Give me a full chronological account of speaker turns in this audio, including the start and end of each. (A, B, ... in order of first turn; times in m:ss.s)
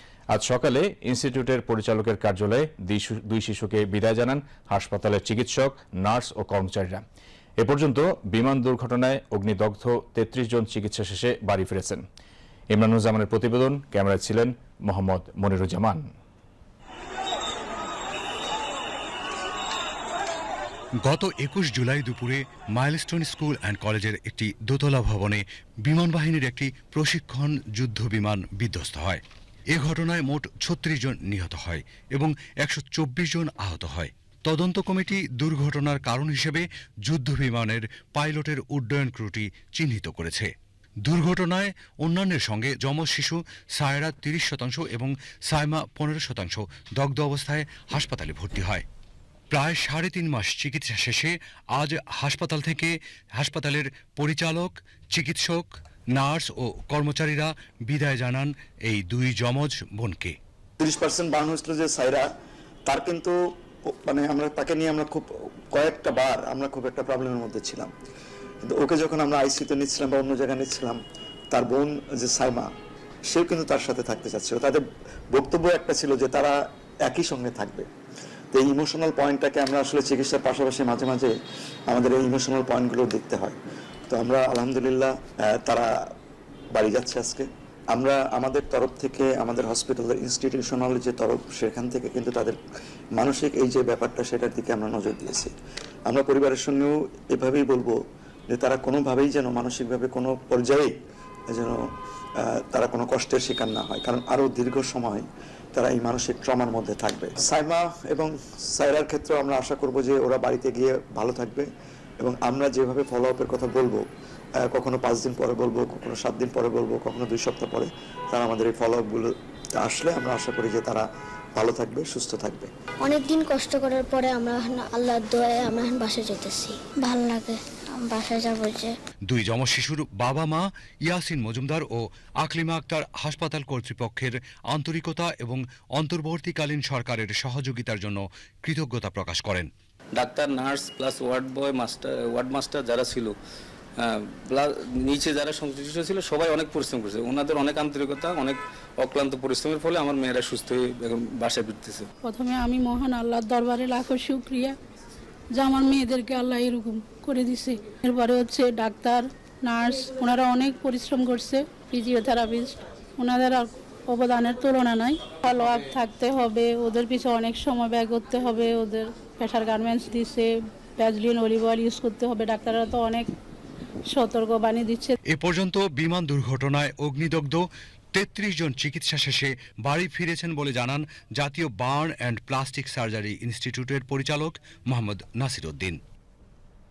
0:00.3-0:07.0 A
0:07.6-0:12.0 A
0:12.7-0:16.1 A
0:21.0-0:29.2 B
0:29.7-0:40.5 B
0:41.0-0:48.8 B
0:49.5-1:00.4 B
1:00.8-1:02.3 C
1:02.9-1:03.4 C
1:03.9-1:07.9 C
1:08.6-1:11.0 C
1:11.5-1:12.7 C
1:13.3-1:14.8 C
1:15.3-1:16.6 C
1:17.1-1:17.9 C
1:18.5-1:21.3 C
1:21.9-1:23.6 C
1:24.1-1:25.9 C
1:26.7-1:32.6 C
1:33.2-1:35.5 C
1:36.1-1:38.0 C
1:38.5-1:41.0 C
1:41.5-1:41.8 C
1:42.4-1:51.7 C
1:52.2-1:54.0 C
1:54.6-2:01.1 C
2:01.6-2:02.7 C
2:03.0-2:09.0 D
2:09.3-2:19.7 B
2:20.2-2:23.4 E
2:24.0-2:32.1 E
2:32.2-2:34.8 F
2:35.6-2:53.3 F
2:54.1-2:55.2 F
2:55.3-3:06.0 B